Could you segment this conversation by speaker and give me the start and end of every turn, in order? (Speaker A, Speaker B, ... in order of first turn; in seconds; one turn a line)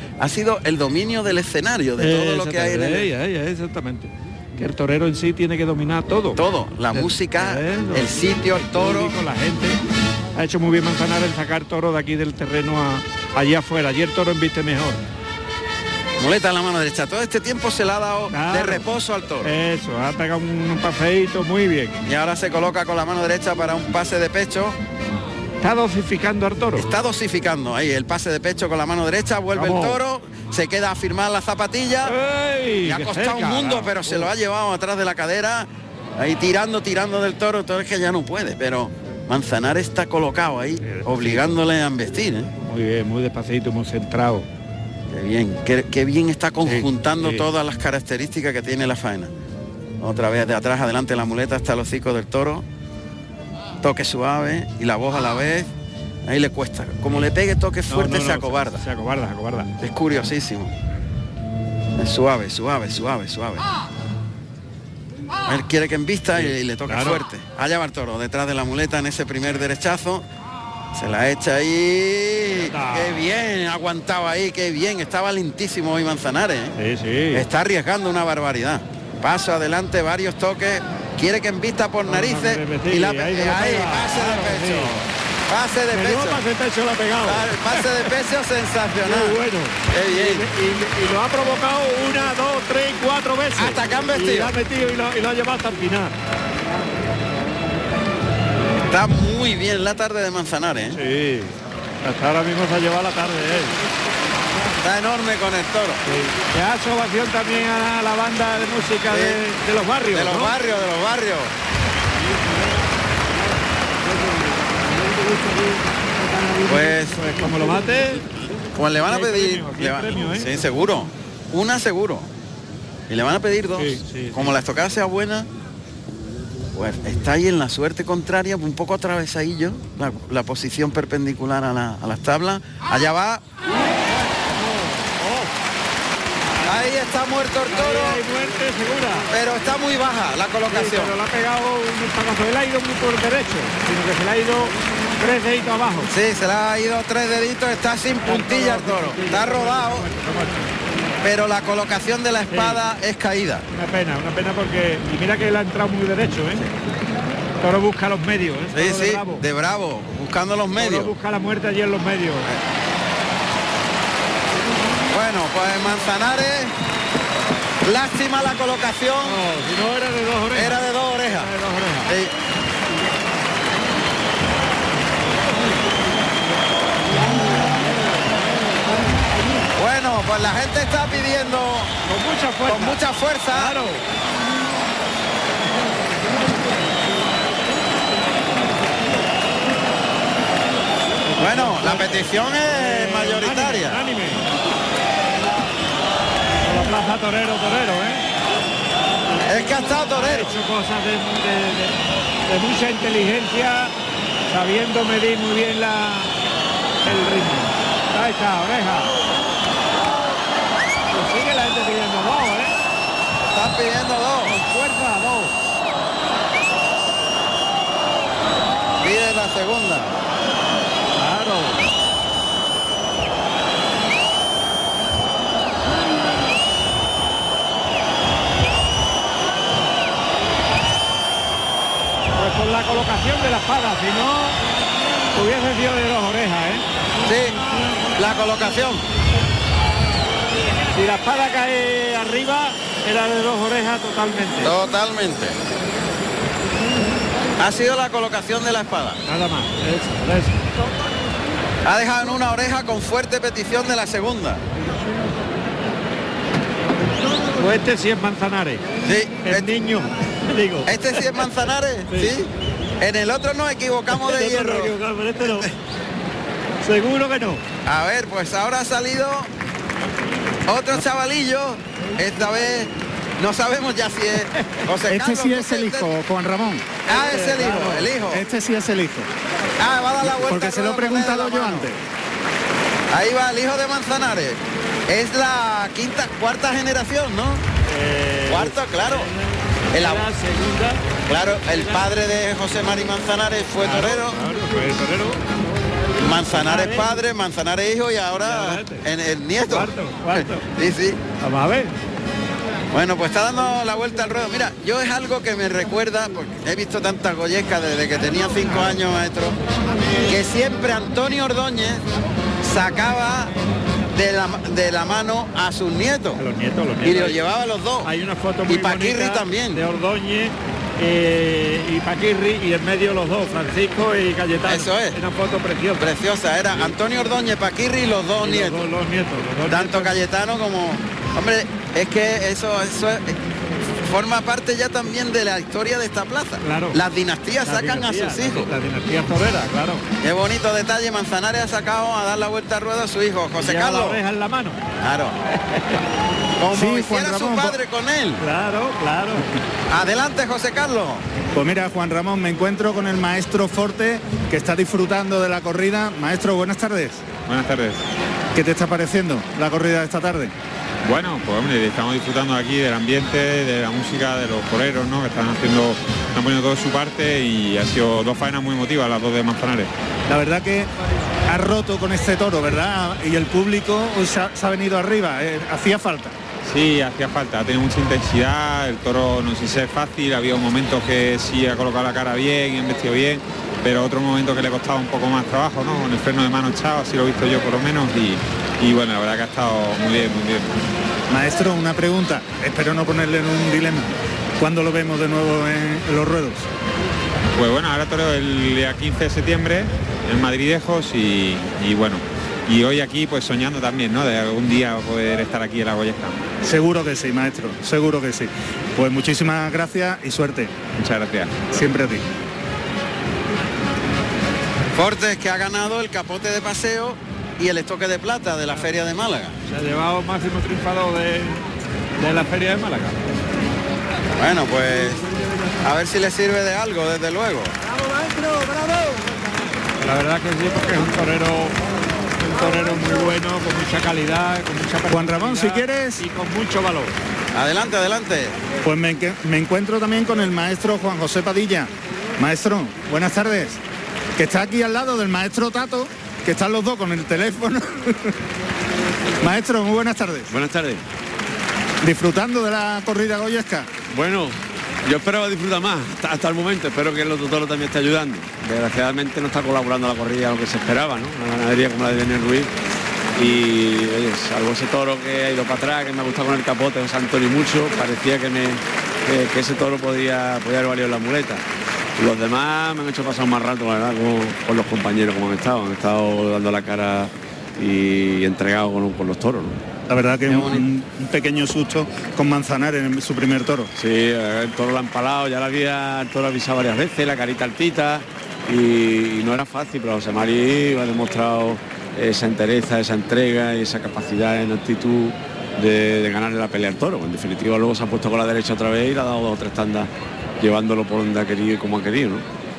Speaker A: 0.2-3.1
Speaker B: 2.0-9.8
Speaker A: 6.4-9.2
Speaker B: 10.3-15.0
Speaker A: 16.2-19.5
Speaker B: 18.3-18.9
Speaker B: 19.4-22.0
Speaker A: 22.1-24.8
Speaker B: 25.6-26.9
Speaker A: 26.8-32.1
Speaker B: 29.5-30.0
Speaker B: 32.0-34.3
Speaker A: 32.9-42.5
Speaker B: 40.8-41.6
Speaker B: 42.6-44.5
Speaker A: 45.1-49.3
Speaker B: 46.6-47.5
Speaker A: 50.0-52.6
Speaker A: 53.8-55.7
Speaker A: 56.3-58.8
Speaker B: 57.9-59.7
Speaker A: 59.8-60.7
Speaker A: 62.0-63.7
Speaker A: 65.5-70.2
Speaker B: 66.3-67.2
Speaker A: 70.9-76.7
Speaker B: 72.6-73.2
Speaker B: 76.8-77.5
Speaker A: 77.3-86.4
Speaker B: 82.0-85.0
Speaker B: 85.9-88.1
Speaker A: 87.2-89.4
Speaker B: 89.0-96.1
Speaker A: 89.9-90.5
Speaker A: 93.6-94.5
Speaker A: 98.9-101.0
Speaker B: 101.0-103.8
Speaker A: 104.8-106.0
Speaker B: 106.1-110.6
Speaker A: 109.1-109.4
Speaker A: 110.1-111.5
Speaker A: 116.7-117.2
Speaker B: 116.8-118.3
Speaker A: 118.8-122.3
Speaker B: 119.1-120.6
Speaker A: 123.1-125.5
Speaker B: 123.8-124.5
Speaker A: 126.7-133.4
Speaker B: 134.4-135.5
Speaker B: 136.4-137.0
Speaker A: 136.6-138.2
Speaker B: 137.7-139.3
Speaker A: 139.3-141.2
Speaker B: 140.7-146.1
Speaker A: 146.1-150.1
Speaker B: 148.2-150.7
Speaker A: 151.2-153.7
Speaker B: 152.5-152.8
Speaker B: 153.7-156.7
Speaker B: 157.6-159.4
Speaker A: 158.7-161.1
Speaker B: 160.8-162.5
Speaker A: 165.1-166.8
Speaker A: 167.8-169.4
Speaker B: 169.2-172.1
Speaker A: 170.5-171.5
Speaker A: 172.1-172.3
Speaker A: 179.8-181.9
Speaker B: 182.1-183.0
Speaker A: 182.7-183.7
Speaker B: 183.5-184.0
Speaker B: 191.3-194.5
Speaker A: 191.4-194.0
Speaker B: 196.6-198.2
Speaker A: 199.5-200.5
Speaker B: 200.1-203.9
Speaker B: 204.5-206.3
Speaker B: 207.0-209.2
Speaker B: 211.1-212.8
Speaker A: 213.4-214.6
Speaker B: 214.4-215.5
Speaker A: 219.0-220.1
Speaker B: 221.2-221.8
Speaker B: 232.3-234.6
Speaker B: 235.3-236.8
Speaker A: 237.2-237.6
Speaker A: 238.2-239.0
Speaker B: 240.9-244.7
Speaker A: 244.6-245.6
Speaker A: 247.6-249.2
Speaker B: 249.3-250.6
Speaker A: 251.8-254.6
Speaker B: 257.5-258.8
Speaker A: 259.0-259.7
Speaker B: 259.4-261.4
Speaker A: 260.9-264.9
Speaker B: 264.1-265.7
Speaker B: 266.8-267.6
Speaker A: 267.9-269.5
Speaker A: 270.7-276.1
Speaker B: 274.4-274.8
Speaker C: 275.1-276.9
Speaker A: 277.1-278.4
Speaker B: 277.1-278.1
Speaker C: 278.2-279.3
Speaker A: 279.8-281.9
Speaker C: 280.2-282.0
Speaker A: 283.1-287.6
Speaker B: 287.9-292.1
Speaker A: 288.5-289.3
Speaker A: 289.9-290.3
Speaker A: 291.3-294.4
Speaker B: 293.8-295.4
Speaker A: 296.2-301.2
Speaker B: 296.4-297.2
Speaker B: 298.4-299.1
Speaker B: 299.7-300.7
Speaker B: 301.4-302.0
Speaker A: 302.9-309.6
Speaker B: 308.6-309.0
Speaker A: 310.2-312.0
Speaker A: 312.6-313.5
Speaker A: 314.1-316.4
Speaker B: 316.4-317.4
Speaker A: 317.0-318.1
Speaker B: 318.0-326.1
Speaker A: 318.7-319.8
Speaker A: 324.7-325.2
Speaker A: 326.0-328.9
Speaker B: 328.4-330.1
Speaker A: 329.7-333.4
Speaker A: 334.0-338.7
Speaker B: 336.6-337.0
Speaker B: 337.6-340.1
Speaker A: 340.2-344.2
Speaker B: 343.6-344.8
Speaker A: 345.0-345.4
Speaker B: 345.7-346.0
Speaker A: 346.6-348.4
Speaker C: 346.7-347.8
Speaker B: 348.4-349.6
Speaker A: 349.9-351.2
Speaker C: 351.5-357.2
Speaker D: 357.5-358.0
Speaker C: 358.6-360.5
Speaker D: 361.0-369.9
Speaker C: 370.3-370.9
Speaker C: 371.5-376.4
Speaker D: 376.6-390.8
Speaker C: 391.3-396.7
Speaker D: 397.5-406.5
Speaker C: 406.6-410.7
Speaker D: 411.0-411.7
Speaker C: 411.7-412.3
Speaker A: 414.9-419.6
Speaker B: 419.7-421.6
Speaker B: 422.2-423.2
Speaker A: 424.4-425.3
Speaker A: 425.8-427.7
Speaker B: 430.0-431.8
Speaker B: 432.4-437.2
Speaker C: 435.1-436.2
Speaker A: 437.5-438.6
Speaker C: 438.9-443.8
Speaker C: 444.4-448.3
Speaker C: 449.4-450.5
Speaker E: 450.5-451.0
Speaker C: 452.0-453.9
Speaker E: 454.1-462.7
Speaker E: 463.4-471.6
Speaker E: 472.2-479.8
Speaker C: 480.1-483.9
Speaker A: 480.5-480.8
Speaker E: 483.9-502.4